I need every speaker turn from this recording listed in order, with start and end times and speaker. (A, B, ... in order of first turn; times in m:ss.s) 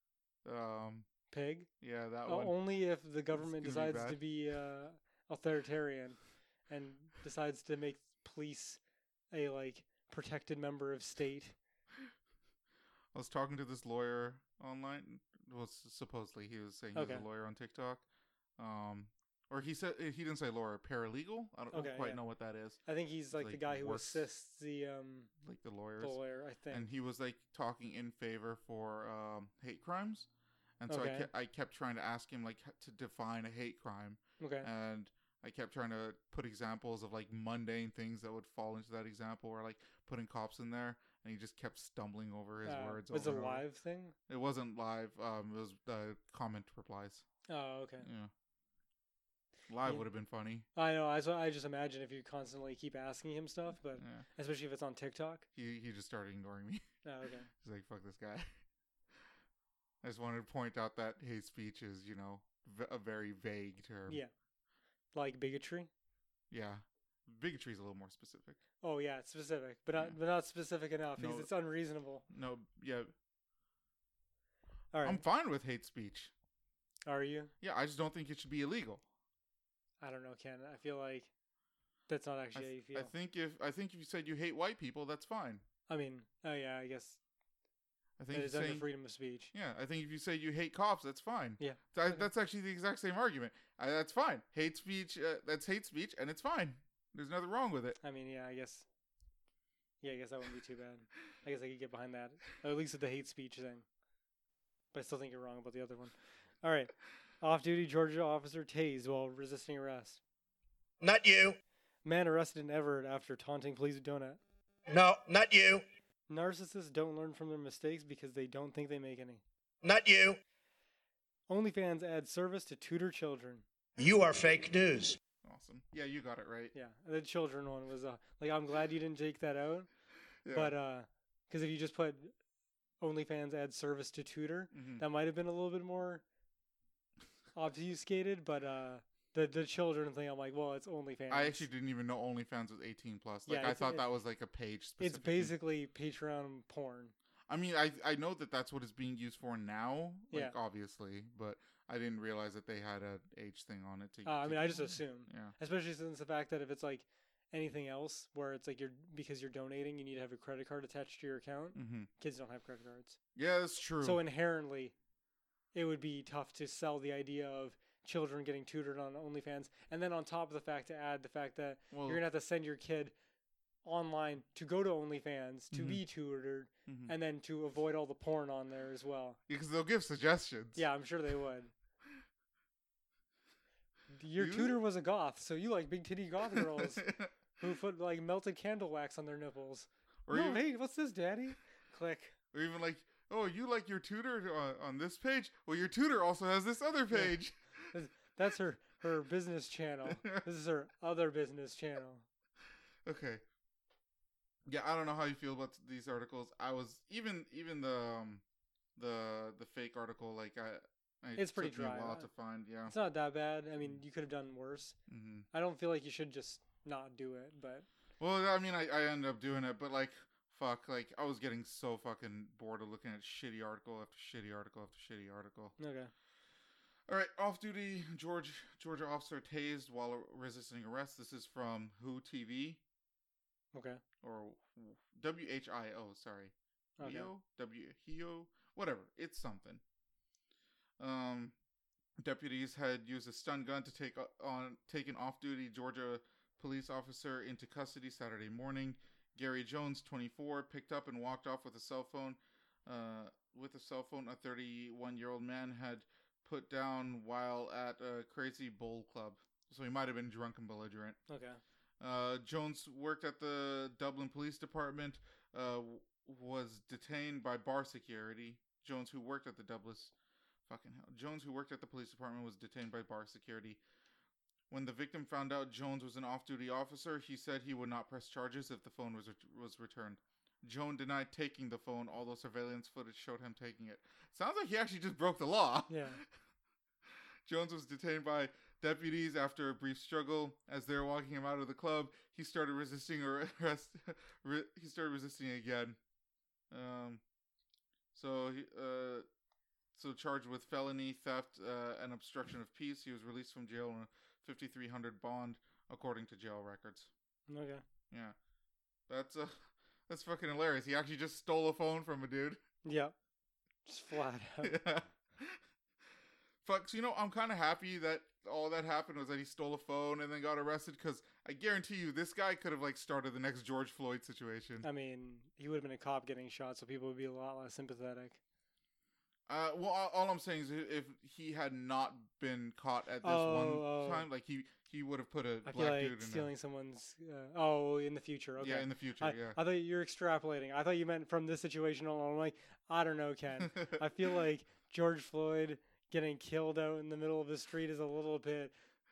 0:00.4-0:01.1 A
0:01.3-0:01.7 B
0:01.8-0:02.6 A
0:02.3-0:08.8 B
0:03.3-0:04.2 A
0:09.3-0:11.6 B
0:13.1-0:18.0 A
0:17.0-0:17.2 B
0:18.6-0:22.8 A
0:21.7-0:22.2 B
0:22.8-0:25.3 B
0:23.3-0:24.3 A
0:25.4-0:26.2 A
0:26.0-0:26.9 B
0:26.7-0:30.3 A
0:30.8-0:43.6 A
0:30.9-0:31.3 B
0:34.4-0:34.7 B
0:42.6-0:44.2 B
0:44.3-0:47.2 A
0:47.5-0:48.1 B
0:48.0-0:48.3 A
0:49.7-0:50.7 A
0:50.7-0:55.5 B
0:54.0-0:54.2 A
0:55.6-0:56.8 A
0:57.0-0:57.5 B
0:57.5-0:58.5 A
1:00.0-1:04.2 A
1:05.1-1:05.9 B
1:06.5-1:08.6 A
1:08.8-1:12.2 B
1:11.2-1:11.5 A
1:12.3-1:13.1 A
1:14.9-1:15.2 B
1:15.0-1:16.3 A
1:17.1-1:17.5 B
1:17.6-1:19.0 A
1:20.0-1:21.3 B
1:22.1-1:23.1 B
1:22.6-1:25.6 A
1:25.9-1:27.2 B
1:28.2-1:28.9 A
1:28.3-1:29.5 B
1:29.5-1:38.0 A
1:31.6-1:32.3 B
1:38.0-1:38.8 B
1:40.0-1:43.8 B
1:44.9-1:50.2 B
1:51.0-1:51.6 C
1:52.0-1:54.4 B
1:54.9-1:55.8 C
1:56.3-1:59.4 B
1:59.8-2:00.4 C
2:01.5-2:03.6 B
2:04.0-2:05.2 C
2:05.4-2:06.7 A
2:06.7-2:09.9 B
2:10.4-2:10.7 A
2:10.5-2:12.4 B
2:13.0-2:16.2 B
2:14.7-2:15.0 A
2:17.6-2:21.7 B
2:21.3-2:25.5 A
2:23.5-2:24.0 B
2:25.0-2:27.1 B
2:27.5-2:35.5 A
2:30.3-2:30.6 B
2:34.2-2:43.2 B
2:41.8-2:42.1 A
2:43.4-2:44.2 A
2:44.0-2:45.0 B
2:45.8-2:53.1 B
2:51.9-2:52.2 A
2:53.8-2:59.4 B
2:55.7-2:56.0 A
2:56.9-2:57.1 A
2:59.5-3:00.8 A
3:00.8-3:01.7 B
3:04.1-3:07.1 B
3:04.4-3:04.8 A
3:06.5-3:07.4 A
3:07.6-3:12.4 B
3:10.3-3:10.6 A
3:12.5-3:17.9 A
3:17.1-3:17.4 B
3:17.9-3:22.3 B
3:20.1-3:20.4 A
3:23.0-3:23.4 A
3:24.7-3:28.4 A
3:29.0-3:33.0 A
3:31.4-3:32.3 B
3:32.9-3:35.0 B
3:35.1-3:35.5 A
3:35.5-3:37.9 B
3:38.2-3:45.8 A
3:45.8-3:46.1 B
3:47.1-3:52.8 A
3:53.7-3:54.0 B
3:54.2-3:59.8 A
3:57.0-3:57.3 B
4:01.0-4:01.6 A
4:02.2-4:21.2 A
4:21.3-4:21.6 B
4:22.0-4:30.1 A
4:30.7-4:33.8 A
4:34.7-4:46.2 A
4:45.9-4:46.2 B
4:47.5-4:56.0 A
4:56.7-4:57.2 A
4:58.1-4:59.3 A
4:59.9-5:07.1 A
5:07.5-5:07.8 B
5:09.1-5:12.6 A
5:12.8-5:13.2 B
5:13.8-5:14.8 B
5:14.6-5:15.6 A
5:16.6-5:24.9 A
5:24.8-5:28.4 B
5:29.5-5:36.5 A
5:33.2-5:34.3 B
5:35.6-5:48.7 B
5:38.6-5:39.6 A
5:43.6-5:44.0 A